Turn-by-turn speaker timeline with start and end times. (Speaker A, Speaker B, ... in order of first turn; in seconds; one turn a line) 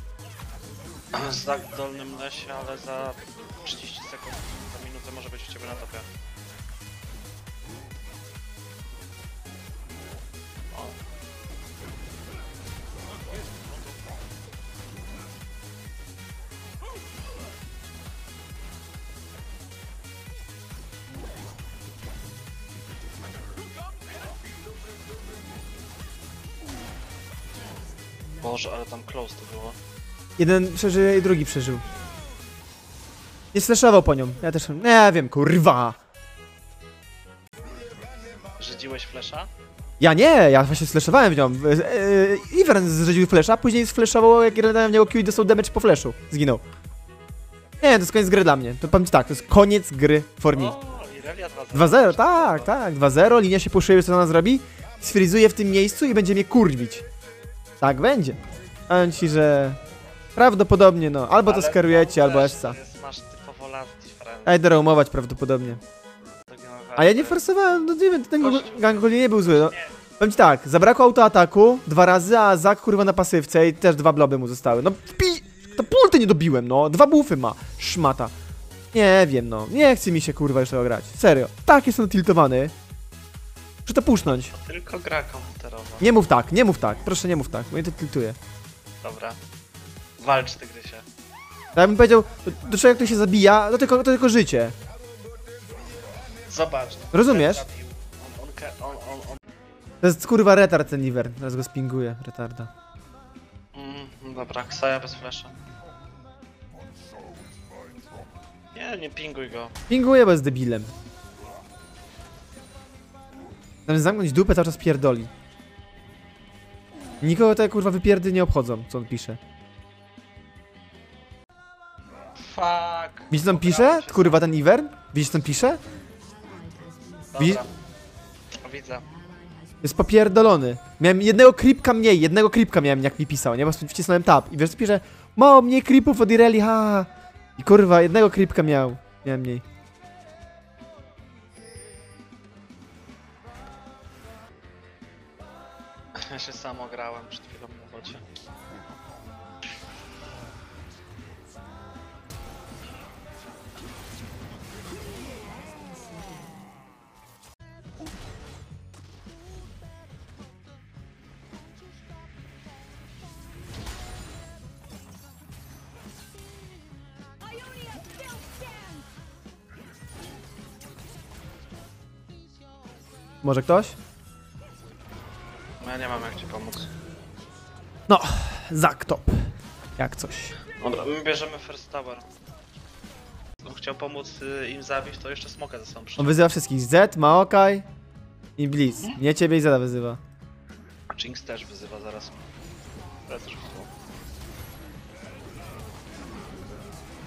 Speaker A: 1.1-6.1
Speaker A: 28.4-29.8
Speaker B: 30.4-31.9
Speaker B: 33.5-36.0
Speaker A: 38.6-39.5
Speaker B: 40.0-46.6
Speaker B: 47.8-50.8
Speaker A: 50.5-52.7
Speaker B: 51.7-57.0
Speaker B: 57.8-59.8
Speaker B: 60.4-62.8
Speaker A: 61.4-64.8
Speaker B: 64.5-65.8
Speaker A: 66.5-67.4
Speaker B: 67.0-78.3
Speaker A: 68.4-70.0
Speaker B: 78.9-82.7
Speaker B: 83.9-84.5
Speaker A: 84.5-86.1
Speaker B: 86.0-88.4
Speaker A: 89.0-89.4
Speaker A: 90.2-91.0
Speaker B: 91.8-94.8
Speaker A: 96.5-99.4
Speaker B: 97.1-97.7
Speaker B: 100.0-102.7
Speaker A: 103.8-105.6
Speaker A: 108.7-109.8
Speaker B: 109.9-110.9
Speaker B: 113.9-115.3
Speaker B: 117.2-119.4
Speaker A: 122.4-124.5
Speaker B: 123.3-125.8
Speaker A: 127.3-127.7
Speaker B: 127.4-127.7
Speaker A: 128.6-129.1
Speaker B: 129.8-139.6
Speaker A: 146.2-148.2
Speaker B: 173.4-174.0
Speaker A: 175.8-176.9
Speaker B: 178.1-180.6
Speaker A: 180.7-182.2
Speaker A: 183.6-186.5
Speaker B: 186.2-187.8
Speaker B: 188.6-190.2
Speaker A: 188.9-189.2
Speaker A: 191.1-192.4
Speaker A: 193.3-193.9